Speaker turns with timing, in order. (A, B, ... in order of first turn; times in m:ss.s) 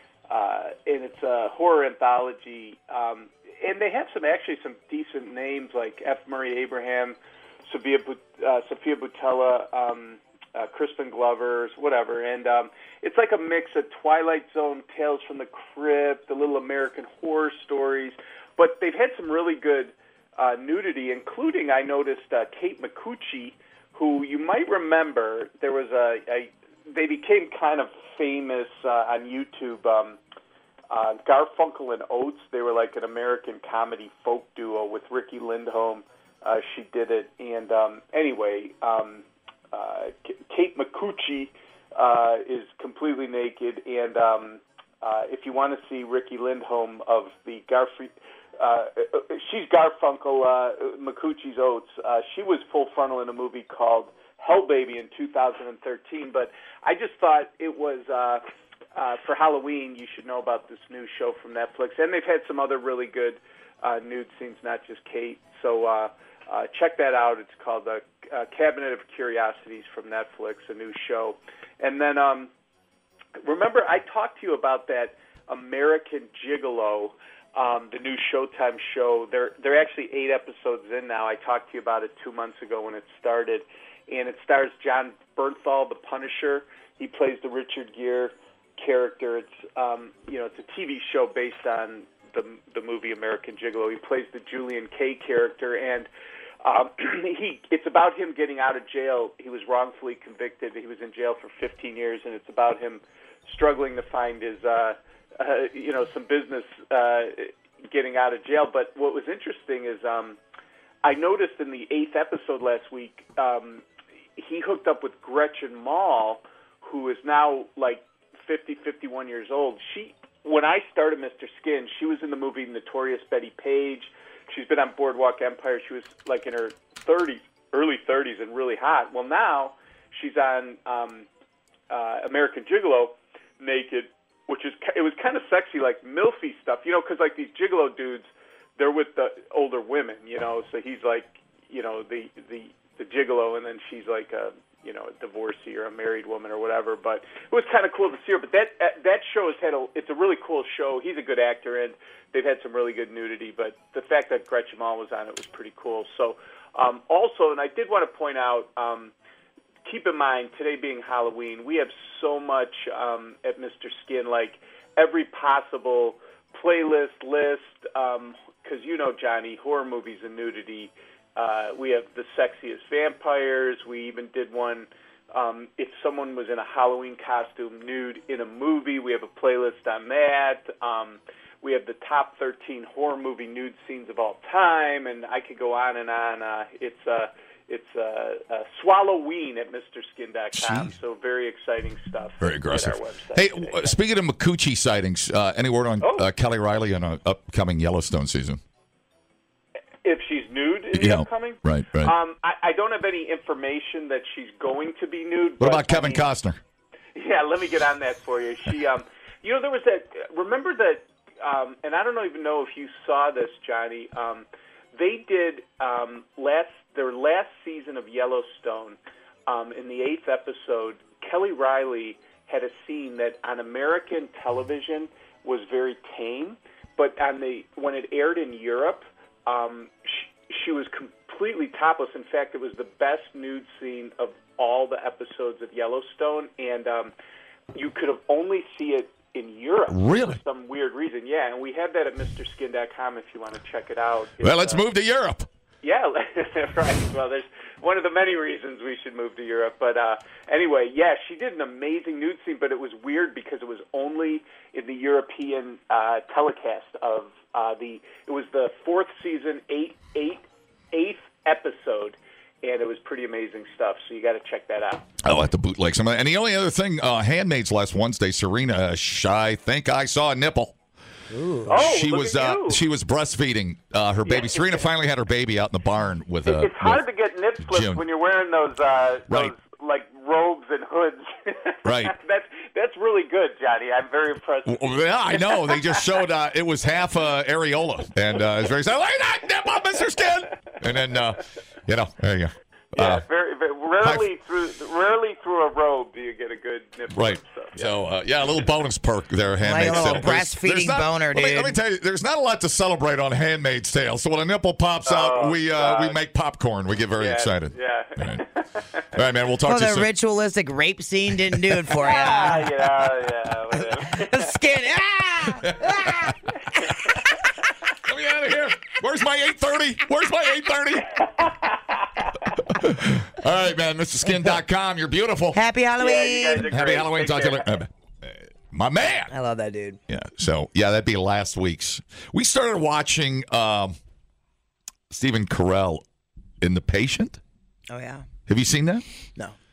0:00.3-0:30.2 A
0:30.9-0:58.4 A
0:58.9-1:12.5 A
1:13.4-1:36.1 A
1:36.6-1:50.4 A
1:51.0-1:53.8 A
1:54.4-2:11.3 A
2:11.9-2:39.1 A
2:39.8-3:14.0 A
3:10.5-3:10.9 B
3:12.4-3:18.6 B
3:16.0-3:16.3 A
3:20.0-3:26.3 A
3:20.9-3:22.1 B
3:25.6-3:26.6 B
3:27.2-3:57.1 A
3:57.7-4:04.8 A
3:59.9-4:00.4 B
4:04.4-4:05.5 B
4:05.8-4:25.1 A
4:25.2-4:30.8 B
4:31.3-4:31.8 C
4:31.7-4:32.8 A
4:31.7-4:37.0 B
4:34.2-4:34.9 A
4:36.4-4:46.1 A
4:37.6-4:38.0 B
4:41.8-4:42.2 B
4:44.7-4:53.2 B
4:53.0-4:58.0 A
4:54.0-4:54.3 B
4:57.1-5:08.4 B
4:59.6-5:01.8 C
5:05.1-5:06.2 A
5:07.2-5:09.0 A
5:09.1-5:10.1 B
5:09.7-5:12.7 C
5:12.0-5:14.6 A
5:14.2-5:16.3 C
5:15.6-5:16.4 B
5:18.0-5:21.1 B
5:21.4-5:22.3 A
5:22.6-5:25.6 B
5:24.3-5:24.6 C
5:25.5-5:26.7 C
5:26.0-5:27.8 A
5:26.6-5:29.3 B
5:29.3-5:30.0 C
5:30.1-5:34.0 B
5:35.1-5:36.0 B
5:36.6-5:37.4 B
5:37.9-5:38.3 C
5:38.5-5:39.0 B